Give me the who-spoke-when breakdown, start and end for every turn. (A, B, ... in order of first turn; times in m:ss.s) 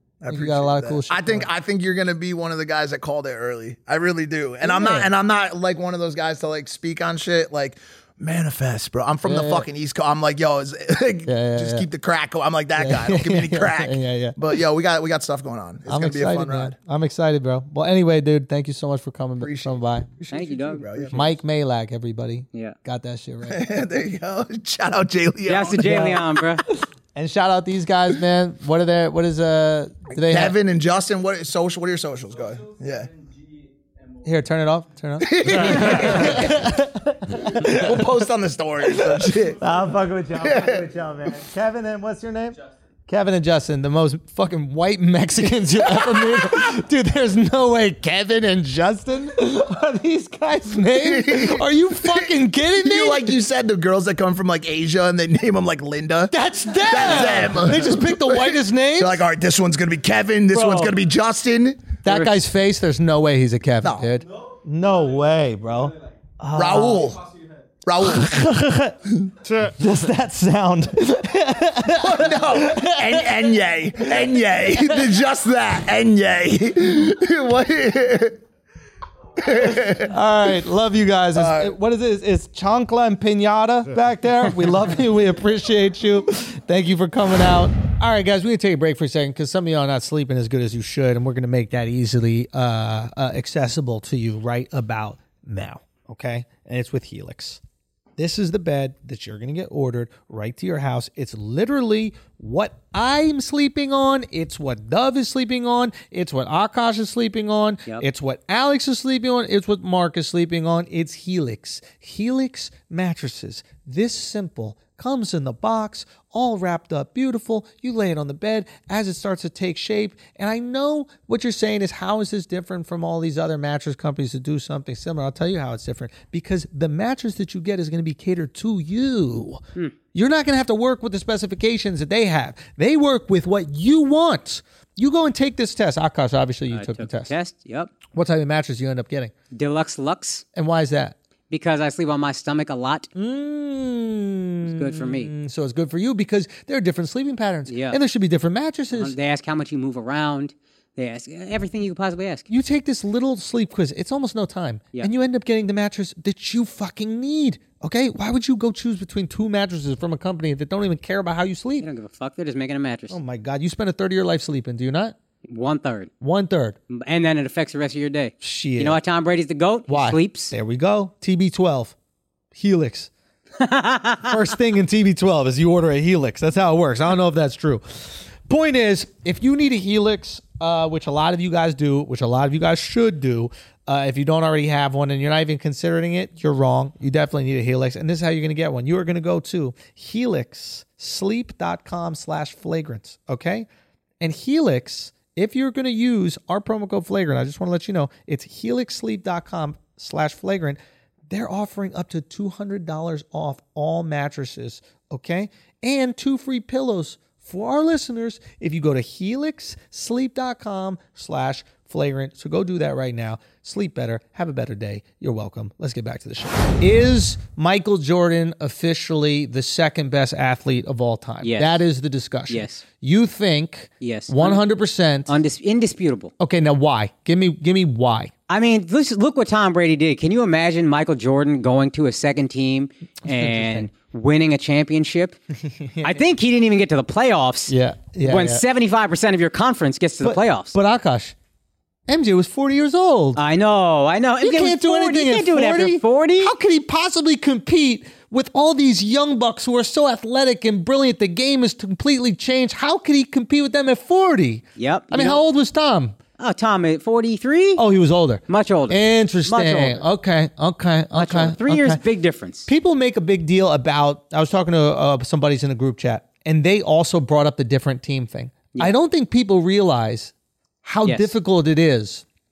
0:00.2-0:16.8 A
0:00.3-0:01.5 B
0:04.6-0:05.1 B
0:09.2-0:09.7 B
0:11.3-0:11.9 B
0:12.8-0:14.5 B
0:15.9-0:20.1 B
0:19.4-0:21.2 A
0:20.3-0:21.3 C
0:21.1-0:23.6 B
0:23.5-0:25.8 A
0:25.5-0:26.6 C
0:25.8-0:30.6 B
0:30.1-0:33.1 A
0:34.2-0:38.1 B
0:35.2-0:36.8 A
0:37.4-0:39.7 A
0:39.1-0:53.4 B
0:40.4-0:40.9 A
0:45.9-0:46.6 A
0:50.9-1:01.9 A
0:56.3-0:59.2 B
1:00.5-1:01.0 B
1:02.0-1:07.1 B
1:02.1-1:02.4 C
1:03.8-1:04.1 A
1:06.5-1:07.3 A
1:07.8-1:08.6 A
1:08.0-1:09.0 B
1:09.6-1:13.5 B
1:11.9-1:18.4 A
1:19.4-1:20.1 A
1:19.8-1:37.6 B
1:21.4-1:21.8 A
1:38.2-2:17.3 B
2:16.7-2:17.9 C
2:18.1-2:19.3 B
2:19.5-2:20.4 C
2:20.6-2:21.2 B
2:21.5-2:23.1 C
2:23.2-2:29.1 B
2:24.7-2:25.3 C
2:27.7-2:28.0 C
2:28.9-2:32.5 C
2:32.5-2:41.9 B
2:41.8-2:43.2 C
2:43.1-2:45.2 B
2:45.5-2:46.1 C
2:46.2-2:46.8 B
2:46.9-2:50.5 C
2:48.4-2:49.0 B
2:49.9-2:52.0 B
2:52.5-2:53.1 B
2:53.6-2:54.3 C
2:54.3-3:13.7 B
3:14.2-3:20.8 B
3:21.3-3:45.3 B
3:41.4-3:41.8 C
3:42.5-3:42.8 C
3:44.0-3:44.6 C
3:45.3-3:46.3 C
3:46.4-3:48.3 B
3:48.5-3:55.4 C
3:53.3-3:53.9 B
3:55.8-3:56.2 B
3:56.0-3:57.7 C
3:57.7-3:58.6 B
3:58.2-4:00.8 C
4:00.2-4:01.4 B
4:02.1-4:03.4 B
4:03.4-4:06.6 C
4:04.4-4:16.2 B
4:14.8-4:15.4 C
4:16.4-4:17.8 C
4:17.8-4:22.0 B
4:18.5-4:20.0 C
4:21.2-4:22.7 C
4:22.7-4:30.3 B
4:30.8-4:32.2 B
4:31.1-4:31.3 C